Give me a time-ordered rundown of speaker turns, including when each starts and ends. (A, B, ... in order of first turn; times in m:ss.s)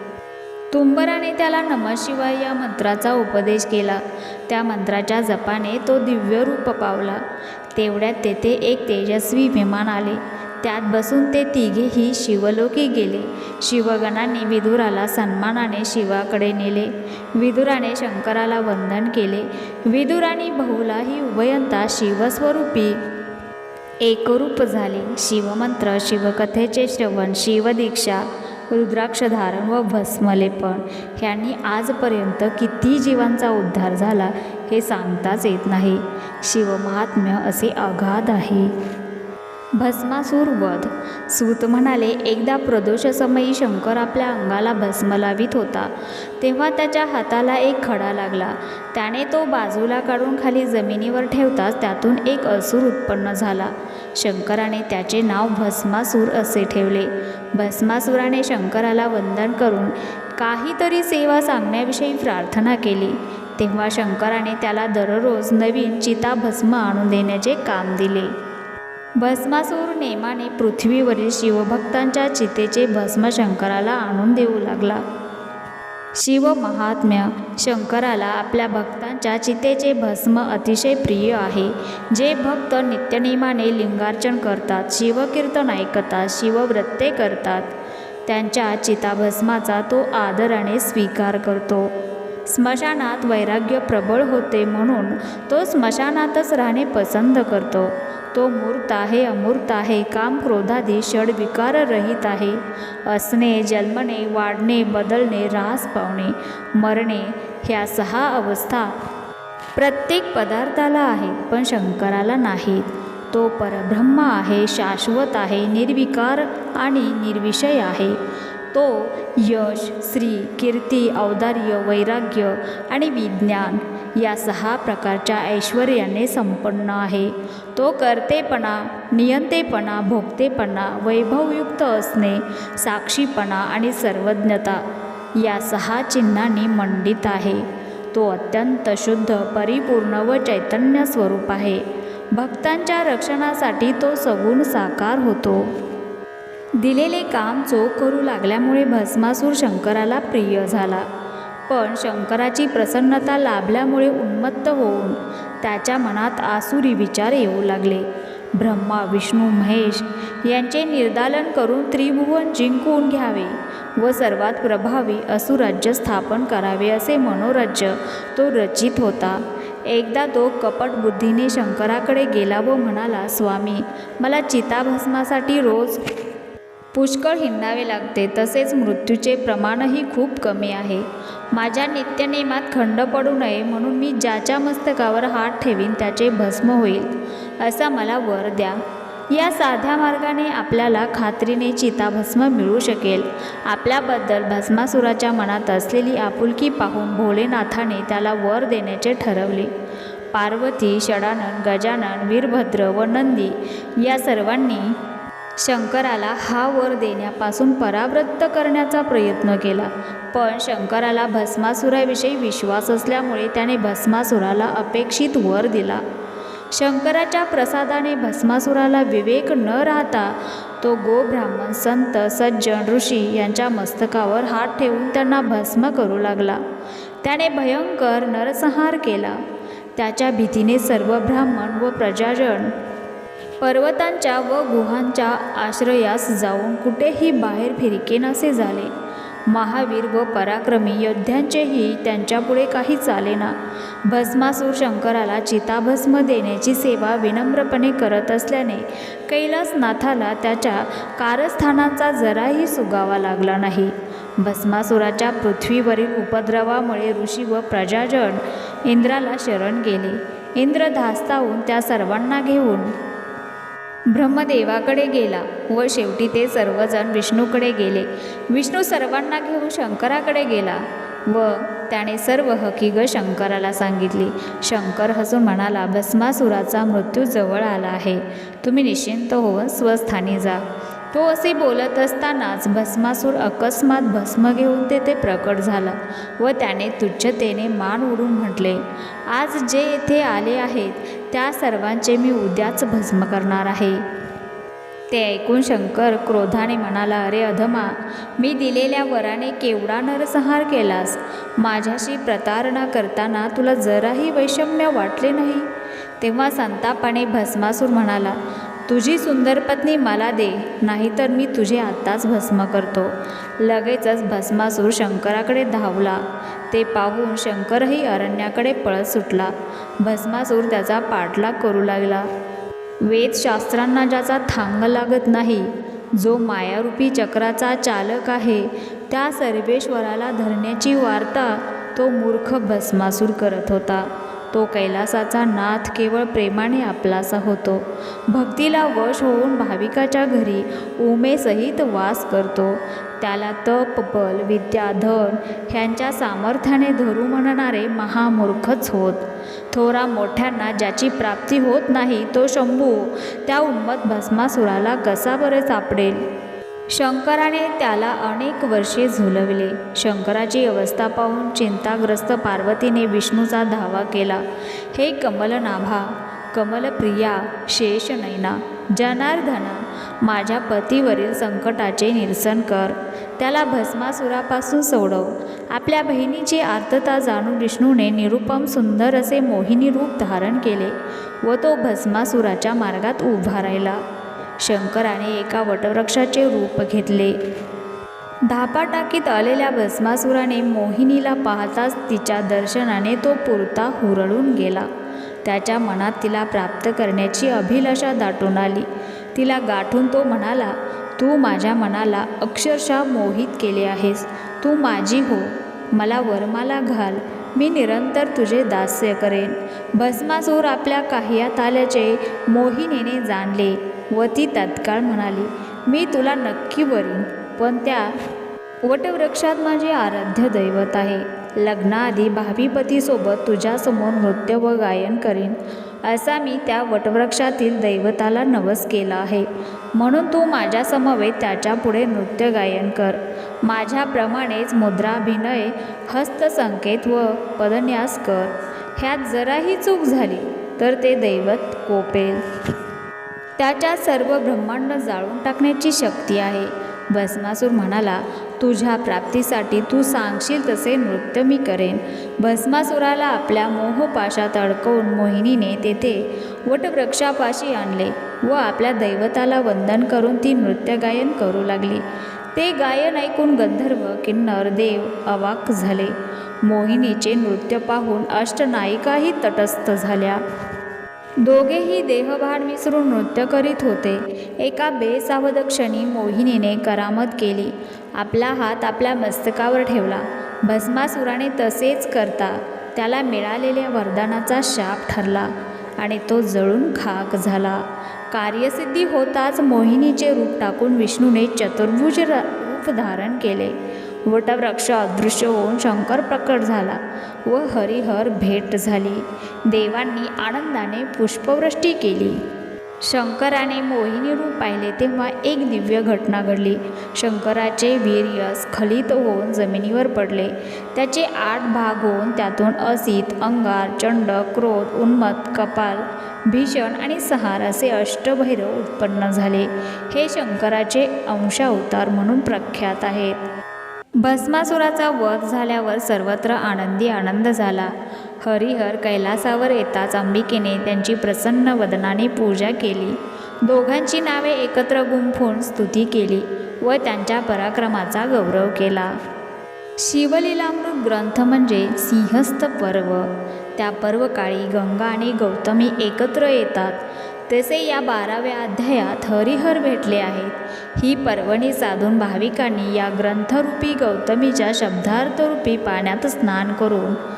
0:00.7-0:07.2 A
0:07.8-0:23.0 A
0:24.0-0:38.7 A
0:39.8-1:08.3 A
1:09.2-1:15.0 A
1:16.2-1:27.7 A
1:28.3-1:31.9 A
1:32.5-1:48.9 A
1:49.8-1:58.2 A
1:58.7-2:14.8 A
2:15.4-2:25.7 A
2:26.8-2:31.1 A
2:31.7-2:56.0 A
2:56.9-3:08.8 A
3:09.3-3:19.7 A
3:20.3-3:25.0 A
3:25.6-3:36.0 A
3:36.7-3:46.6 A
3:47.2-3:49.4 A
3:50.0-3:52.7 A
3:53.6-3:58.9 A
3:59.5-4:03.6 A
4:04.1-4:22.9 A
4:24.1-4:54.0 A
4:55.1-5:05.7 A
5:06.2-5:22.3 A
5:23.0-5:56.2 A
5:56.9-6:24.0 A
6:24.6-6:27.4 A
6:28.5-6:34.9 A
6:35.4-6:58.1 A
6:58.8-7:22.4 A
7:23.6-7:42.0 A
7:42.6-7:50.4 A
7:51.4-8:22.4 A
8:23.1-8:43.4 A
8:44.2-8:59.1 A
9:00.0-9:07.0 A
9:07.5-9:17.2 A